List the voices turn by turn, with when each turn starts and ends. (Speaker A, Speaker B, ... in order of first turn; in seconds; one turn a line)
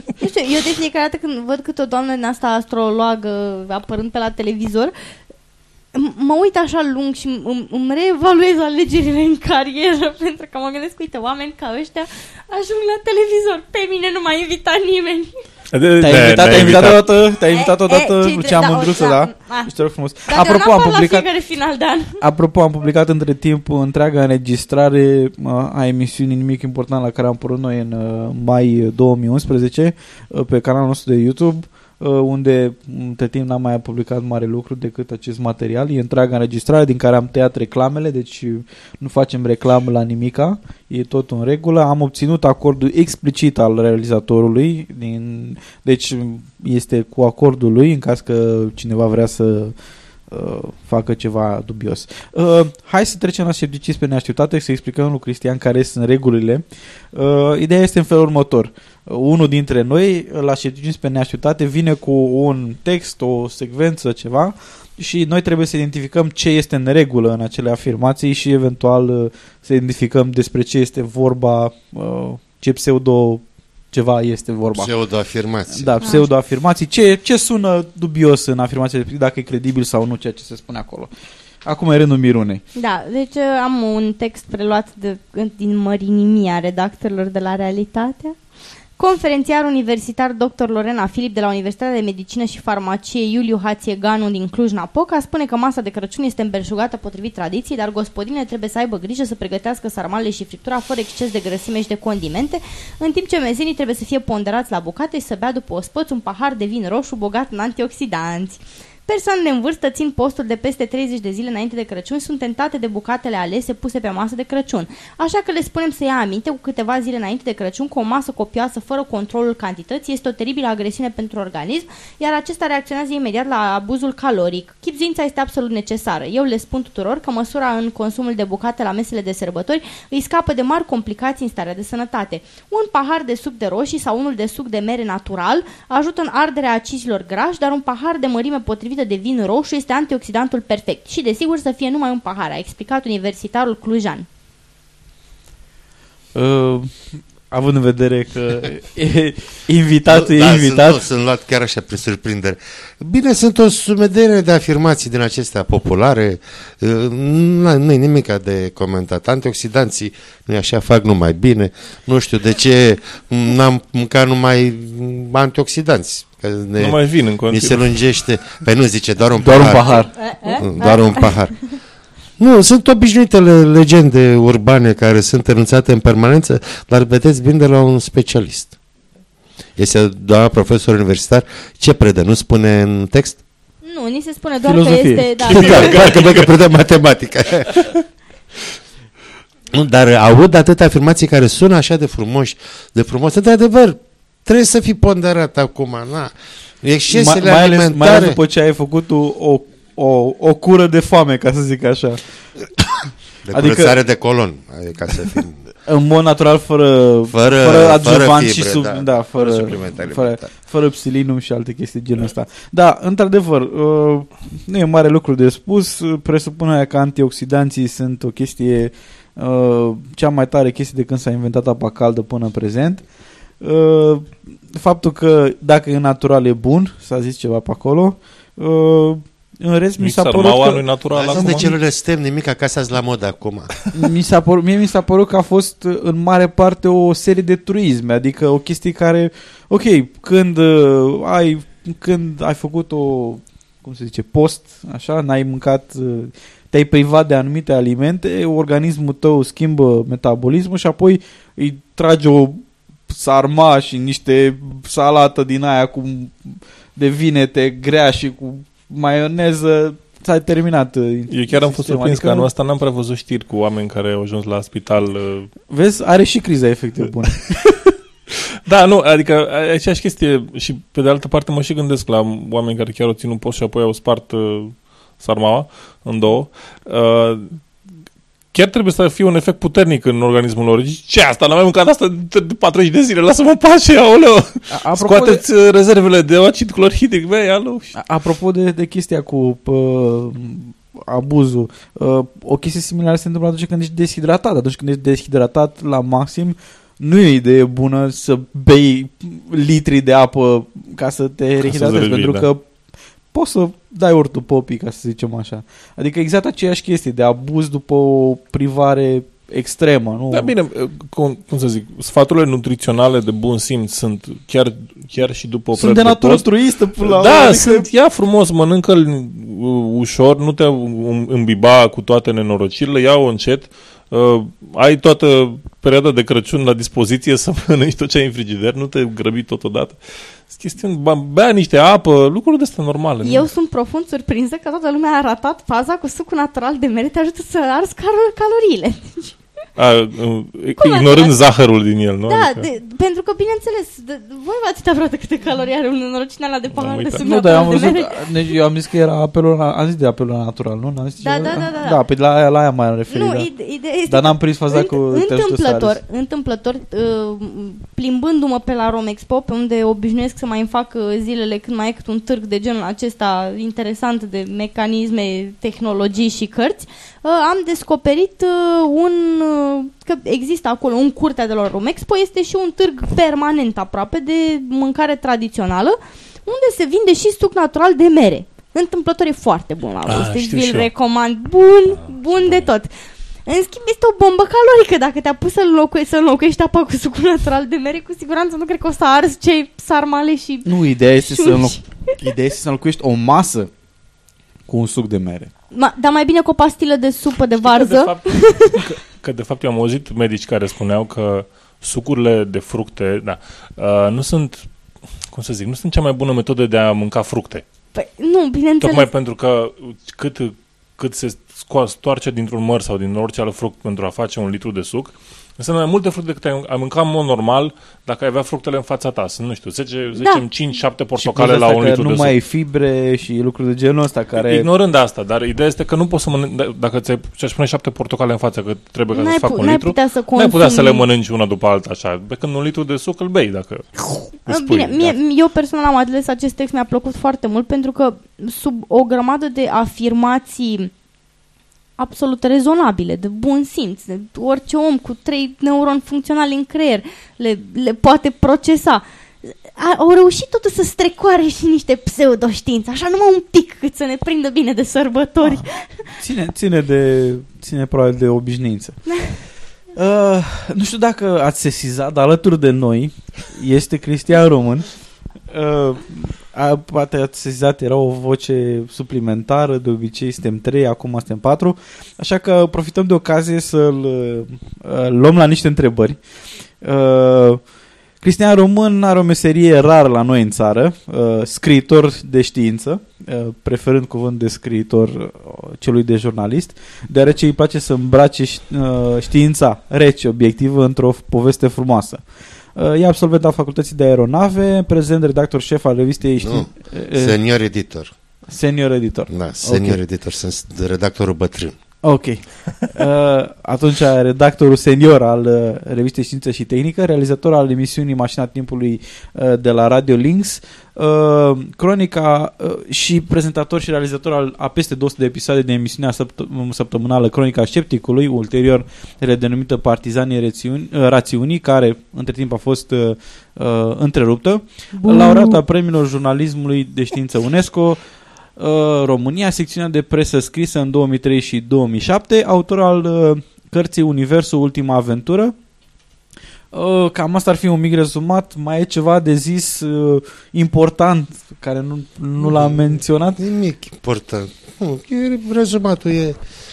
Speaker A: 0.2-4.9
Speaker A: 5.9-15.3
Speaker B: 15.7-17.1
Speaker C: 16.0-21.3
Speaker A: 17.5-19.7
Speaker A: 20.3-22.2
Speaker C: 22.2-49.8
Speaker C: 50.3-74.9
Speaker D: 74.8-76.0
Speaker C: 75.7-81.1
Speaker A: 76.0-76.3
Speaker C: 81.7-82.6
Speaker A: 82.8-88.4
Speaker A: 89.0-144.3
Speaker C: 146.3-151.0
Speaker D: 150.1-167.0
Speaker B: 166.8-168.2
Speaker D: 167.5-171.6
Speaker C: 169.4-170.1
Speaker A: 170.0-171.4
Speaker D: 172.4-178.7
Speaker D: 179.8-183.4
Speaker A: 183.8-186.1
Speaker C: 184.7-186.1
Speaker B: 185.5-186.5
Speaker D: 185.5-187.9
Speaker D: 189.7-198.4
Speaker C: 197.1-202.2
Speaker D: 203.0-205.6
Speaker C: 203.5-204.0
Speaker C: 205.8-223.0
Speaker D: 207.3-210.5
Speaker C: 223.6-231.8
Speaker B: 230.0-231.7
Speaker D: 231.1-233.7
Speaker C: 233.9-262.5
Speaker B: 261.3-265.5
Speaker C: 265.7-267.6
Speaker B: 268.6-277.6
Speaker B: 278.5-287.9
Speaker C: 284.7-285.4
Speaker C: 287.9-302.6
Speaker B: 301.6-302.5
Speaker C: 303.3-310.5
Speaker B: 310.3-316.5
Speaker C: 315.8-317.9
Speaker B: 317.0-333.5
Speaker A: 333.2-339.3
Speaker B: 339.8-342.7
Speaker A: 340.8-341.4
Speaker A: 342.3-348.2
Speaker B: 346.7-347.2
Speaker C: 347.2-353.5
Speaker A: 351.2-352.0
Speaker A: 353.1-382.9
Speaker C: 354.1-356.0
Speaker B: 380.1-380.9
Speaker B: 382.3-382.6
Speaker A: 383.5-390.7
Speaker C: 390.7-393.7
Speaker A: 391.2-392.1
Speaker C: 394.7-395.5
Speaker A: 395.7-398.8
Speaker B: 397.6-404.7
Speaker B: 405.3-407.6
Speaker A: 407.9-409.1
Speaker B: 408.8-422.4
Speaker A: 420.2-420.4
Speaker C: 421.2-424.7
Speaker B: 424.4-435.2
Speaker A: 429.1-431.0
Speaker A: 434.5-440.9
Speaker A: 442.0-455.9
Speaker C: 456.2-459.0
Speaker A: 459.1-459.4
Speaker C: 459.9-464.9
Speaker C: 465.5-476.2
Speaker C: 476.8-477.6
Speaker C: 478.2-492.2
Speaker C: 492.8-497.4
Speaker D: 496.4-498.1
Speaker C: 498.5-500.0
Speaker D: 499.3-501.8
Speaker C: 502.0-528.0
Speaker A: 525.0-525.6
Speaker C: 528.6-535.5
Speaker C: 536.7-543.4
Speaker D: 542.4-542.8
Speaker D: 543.4-546.4